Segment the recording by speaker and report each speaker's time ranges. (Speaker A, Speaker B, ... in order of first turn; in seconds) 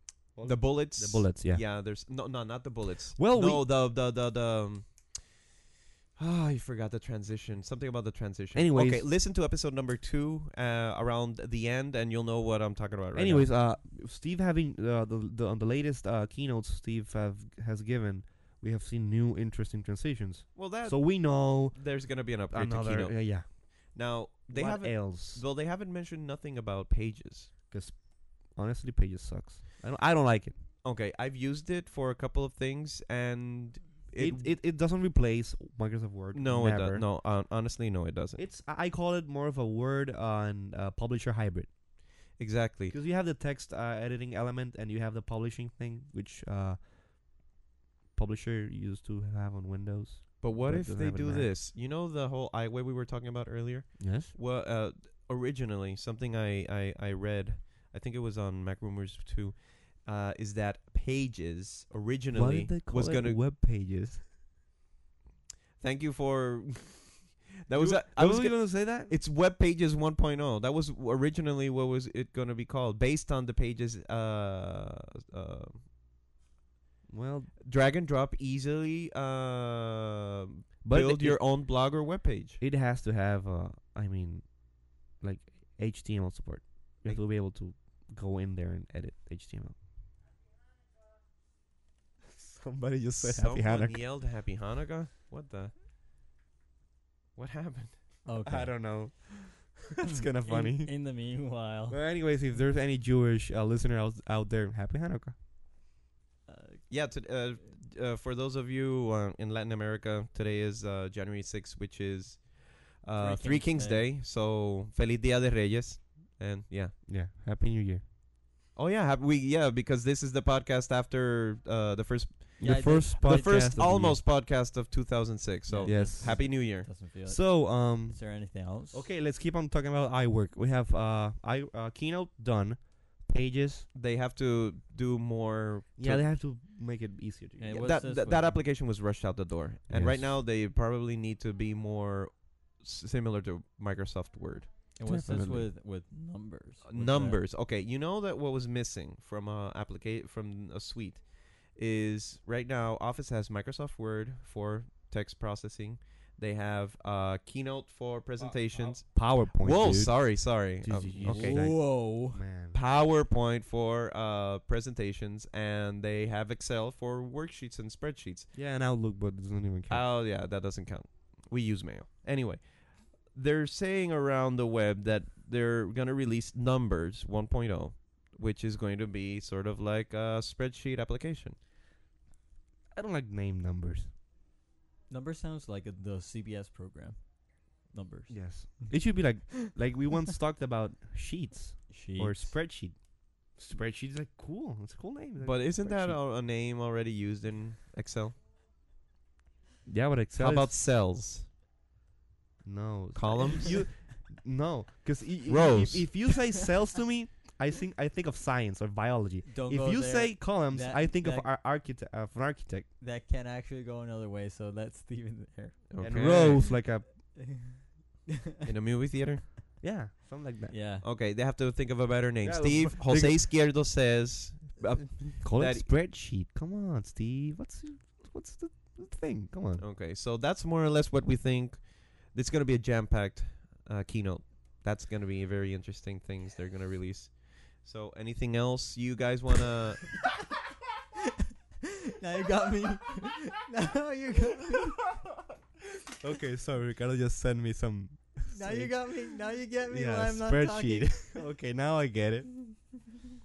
Speaker A: 0.3-1.6, 3.1-3.6, 8.5-9.1, 13.1-25.4, 27.7-30.6, 34.1-37.0, 38.4-41.7, 42.9-46.9, 48.1-51.5, 54.0-54.3, 62.3-64.2, 67.7-69.1, 77.1-77.5, 80.8-81.4, 82.6-84.6, 85.1-89.8, 92.3-94.0, 98.4-101.0, 101.9-105.3, 117.0-118.0, 122.6-124.2, 125.8-133.9, 136.0-137.8, 139.9-140.3, 145.0-145.7, 158.9-162.8, 168.5-170.1, 182.9-184.1, 188.3-193.0, 193.5-196.2, 199.8-200.7, 202.6-212.9, 216.0-217.1, 219.8-220.8, 222.4-223.5, 225.4-229.8, 246.2-249.2, 249.9-252.9
Speaker B: 0.4-5.3, 6.2-13.5, 20.5-27.5, 30.8-34.5, 36.3-38.4, 42.4-42.9, 50.4-63.4, 65.8-75.8, 77.6-82.6, 93.2-95.7, 97.3-98.1, 106.9-116.9, 118.7-126.9, 133.9-136.2, 137.7-144.7, 146.8-161.8, 162.7-168.5, 169.9-181.6, 195.4-198.4, 200.3-201.5, 203.1-203.9, 205.5-206.3, 215.9-216.7, 218.6-219.5, 221.0-225.9, 229.8-240.2
Speaker C: 98.2-99.0, 100.4-102.0, 106.5-106.9, 113.2-114.1, 122.6-123.8, 125.7-129.1, 137.6-138.6, 144.9-147.4, 161.2-162.4, 185.1-187.2, 187.9-189.7, 191.9-192.5, 209.5-211.5, 213.0-217.9, 220.7-221.0, 242.2-245.1, 248.5-251.4